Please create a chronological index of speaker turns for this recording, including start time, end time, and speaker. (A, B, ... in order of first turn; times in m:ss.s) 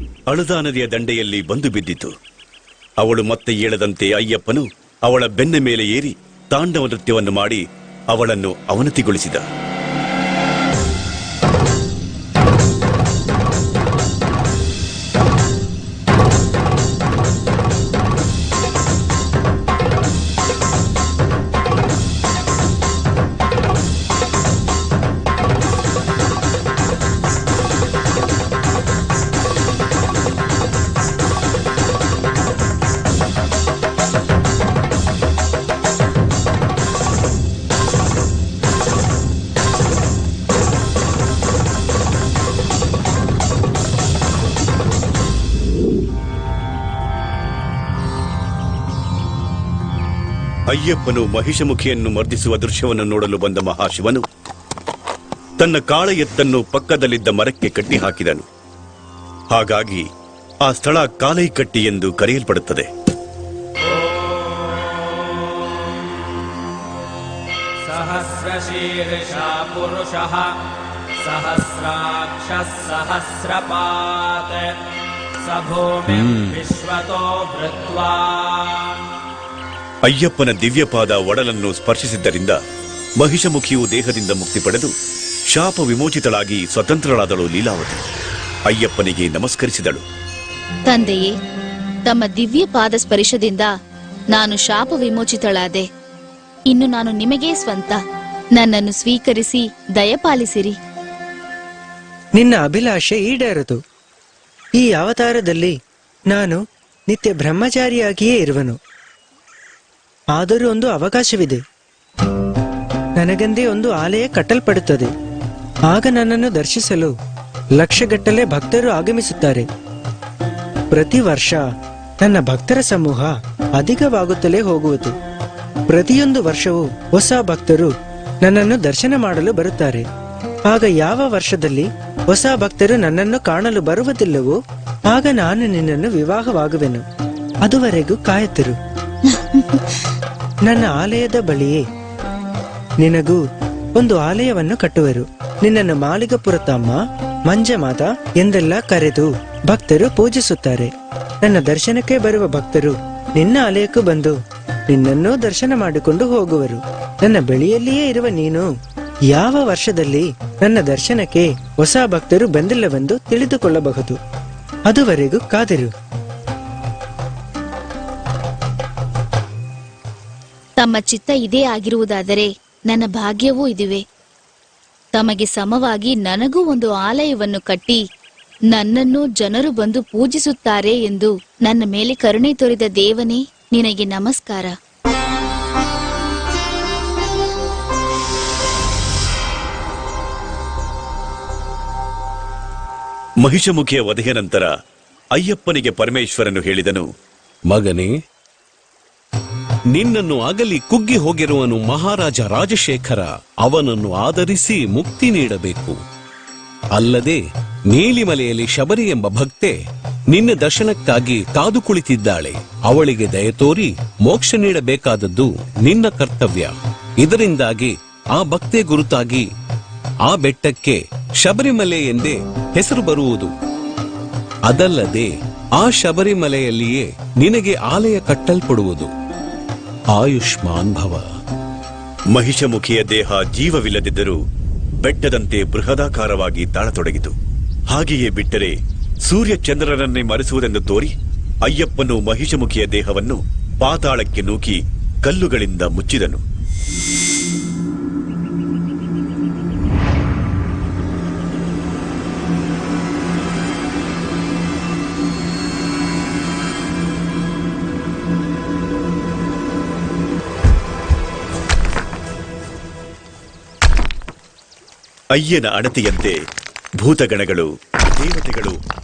0:00.3-0:02.1 A
0:03.0-0:09.5 A
0:50.7-0:54.2 A
0:55.6-0:58.5 A
0:59.5-1:00.1 A
1:00.6-1:02.9 A
1:04.2-1:04.8 B
1:07.9-1:10.5 B
1:11.2-1:14.7 B
1:15.4-1:18.8 B
1:20.0-1:22.6 A
1:23.2-1:24.9 A
1:25.5-1:28.0 A
1:28.7-1:30.0 A
1:30.9-1:31.3 C
1:32.1-1:33.7 C
1:34.3-1:35.8 C
1:36.7-1:38.0 C
1:38.6-1:40.8 C
1:42.4-1:43.8 D
1:44.8-1:45.7 D
1:46.3-1:48.8 D
1:50.4-1:51.6 D
1:53.2-1:55.1 D
1:55.9-1:57.1 D
1:57.8-1:59.7 D
2:00.9-2:01.6 D
2:02.2-2:05.1 D
2:05.9-2:07.9 D
2:08.4-2:10.0 D
2:10.7-2:14.6 D
2:15.1-2:17.0 D
2:17.6-2:18.8 D
2:19.3-2:19.8 C
2:20.6-2:21.8 D
2:23.0-2:23.4 D
2:24.0-2:30.9 D
2:31.4-2:34.4 D
2:34.9-2:38.7 D
2:39.3-2:44.2 D
2:44.9-2:45.9 D
2:50.8-2:54.0 C
2:55.2-2:58.0 C
2:58.7-3:04.7 C
3:13.4-3:14.7 A
3:15.3-3:17.1 A
3:17.7-3:18.1 E
3:19.9-3:26.0 E
3:27.0-3:27.4 E
3:27.9-3:29.7 E
3:30.3-3:39.4 E
3:40.3-3:43.5 E
3:44.7-3:49.1 E
3:50.2-3:51.2 E
3:52.3-3:54.4 A
3:55.0-3:57.4 A
3:57.9-3:58.7 A
3:59.2-4:01.1 A
4:01.6-4:06.4 A
4:25.3-4:26.4 A
4:27.0-4:28.8 A